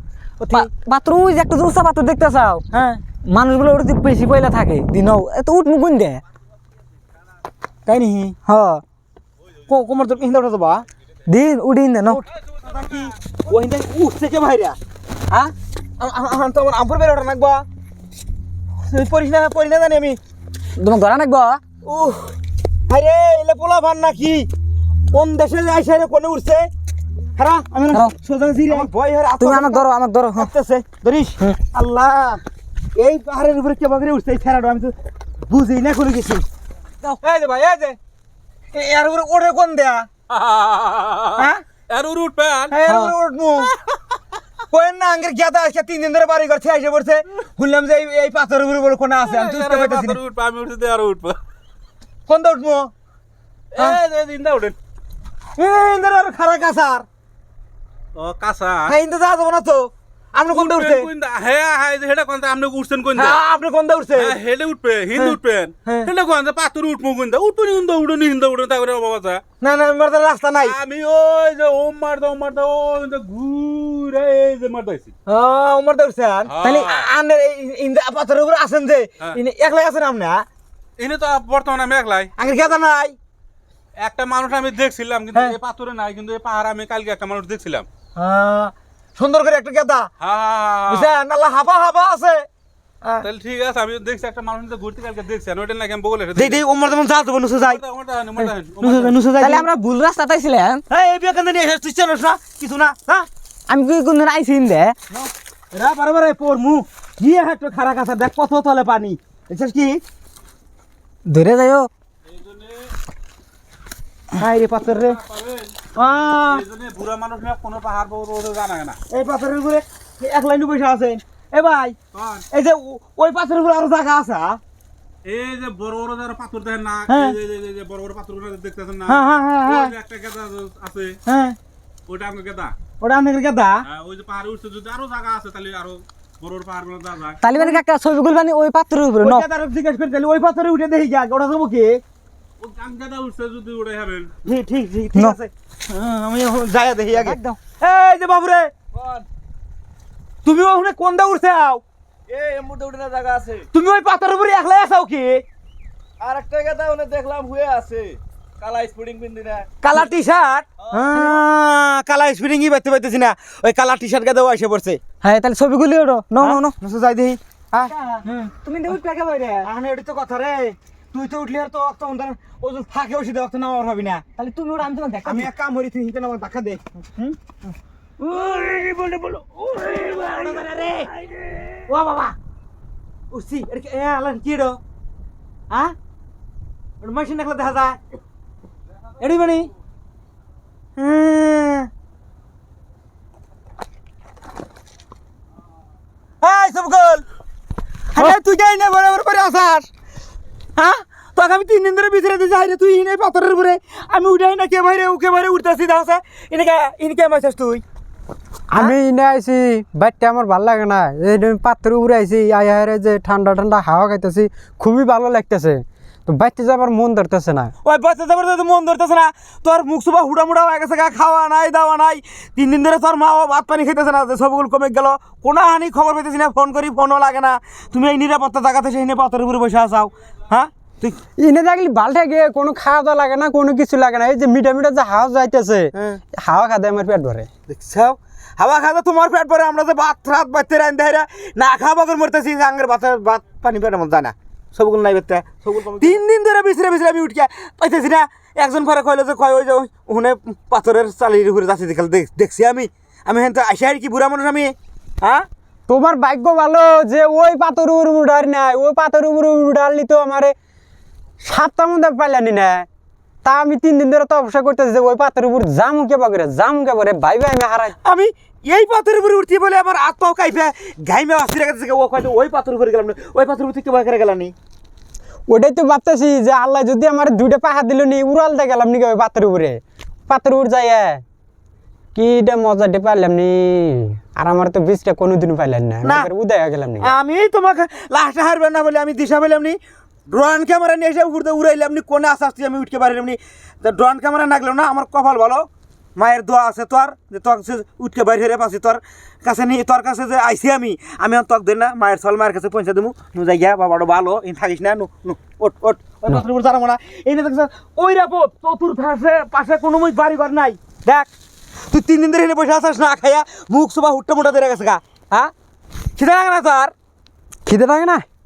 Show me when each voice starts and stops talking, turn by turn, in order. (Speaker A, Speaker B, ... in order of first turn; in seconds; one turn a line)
Speaker A: 0.4-0.7
Speaker B: 0.5-2.6
Speaker A: 2.7-3.0
Speaker B: 3.3-6.2
Speaker A: 7.9-8.4
Speaker B: 8.5-8.8
Speaker A: 9.7-10.8
Speaker B: 11.3-12.2
Speaker A: 12.1-14.8
Speaker A: 16.0-17.7
Speaker A: 18.8-20.2
Speaker B: 20.8-21.6
Speaker A: 21.8-22.4
Speaker A: 22.9-24.5
Speaker A: 25.1-26.7
Speaker A: 27.4-32.4
Speaker B: 29.4-30.5
Speaker A: 33.0-35.0
Speaker A: 35.5-36.5
Speaker A: 37.2-38.0
Speaker A: 38.7-40.1
Speaker C: 40.3-42.8
Speaker A: 41.4-41.6
Speaker A: 42.7-43.7
Speaker A: 44.7-50.2
Speaker C: 49.2-51.4
Speaker A: 52.3-52.9
Speaker C: 53.7-54.8
Speaker A: 55.6-57.1
Speaker C: 58.2-58.9
Speaker A: 58.9-61.1
Speaker C: 60.5-63.4
Speaker A: 63.1-64.4
Speaker C: 64.2-69.4
Speaker A: 69.6-70.8
Speaker C: 70.6-75.1
Speaker A: 75.3-80.5
Speaker C: 76.5-77.1
Speaker C: 81.0-82.3
Speaker A: 82.4-83.2
Speaker C: 84.0-87.9
Speaker A: 88.2-90.1
Speaker C: 90.2-91.1
Speaker A: 90.9-92.5
Speaker C: 93.2-96.6
Speaker A: 96.4-97.8
Speaker C: 97.6-99.2
Speaker A: 98.8-99.7
Speaker B: 99.5-100.8
Speaker A: 100.9-103.3
Speaker B: 103.7-105.0
Speaker A: 105.1-110.0
Speaker B: 111.3-111.9
Speaker C: 112.3-112.9
Speaker A: 114.4-115.2
Speaker C: 115.1-115.8
Speaker A: 116.0-116.7
Speaker C: 116.5-119.0
Speaker A: 119.1-122.0
Speaker C: 122.1-122.5
Speaker A: 122.5-124.6
Speaker C: 125.2-131.2
Speaker A: 127.1-127.4
Speaker A: 129.1-129.9
Speaker A: 131.3-131.6
Speaker C: 132.1-132.8
Speaker A: 133.0-133.9
Speaker C: 133.8-137.4
Speaker B: 137.4-139.4
Speaker A: 137.6-137.8
Speaker A: 139.2-142.0
Speaker C: 142.6-144.3
Speaker A: 144.4-148.7
Speaker B: 147.2-147.6
Speaker D: 149.0-149.2
Speaker A: 150.4-151.8
Speaker D: 152.3-153.6
Speaker A: 153.7-155.4
Speaker D: 156.2-158.1
Speaker D: 158.7-159.6
Speaker A: 159.8-165.0
Speaker B: 165.2-166.7
Speaker A: 166.4-167.4
Speaker B: 167.7-169.7
Speaker A: 169.6-174.2
Speaker B: 174.4-175.4
Speaker A: 175.2-177.3
Speaker B: 178.8-179.9
Speaker A: 179.8-181.1
Speaker A: 181.9-182.3
Speaker A: 183.3-184.8
Speaker A: 185.7-185.9
Speaker A: 187.0-188.0
Speaker A: 189.2-189.7
Speaker A: 191.0-191.9
Speaker A: 196.4-197.2
Speaker A: 198.1-199.9
Speaker A: 200.8-207.8
Speaker E: 208.7-217.7
Speaker A: 217.8-231.2
Speaker E: 231.4-237.5
Speaker A: 235.9-236.2
Speaker A: 237.7-255.5
Speaker E: 255.9-260.6
Speaker E: 261.4-262.9
Speaker E: 263.4-267.9
Speaker A: 268.0-274.5
Speaker E: 275.5-281.2
Speaker E: 282.1-287.1
Speaker A: 286.0-286.3
Speaker A: 287.0-289.8
Speaker A: 290.3-311.3
Speaker A: 311.9-315.5
Speaker A: 316.2-316.9
Speaker E: 317.7-318.3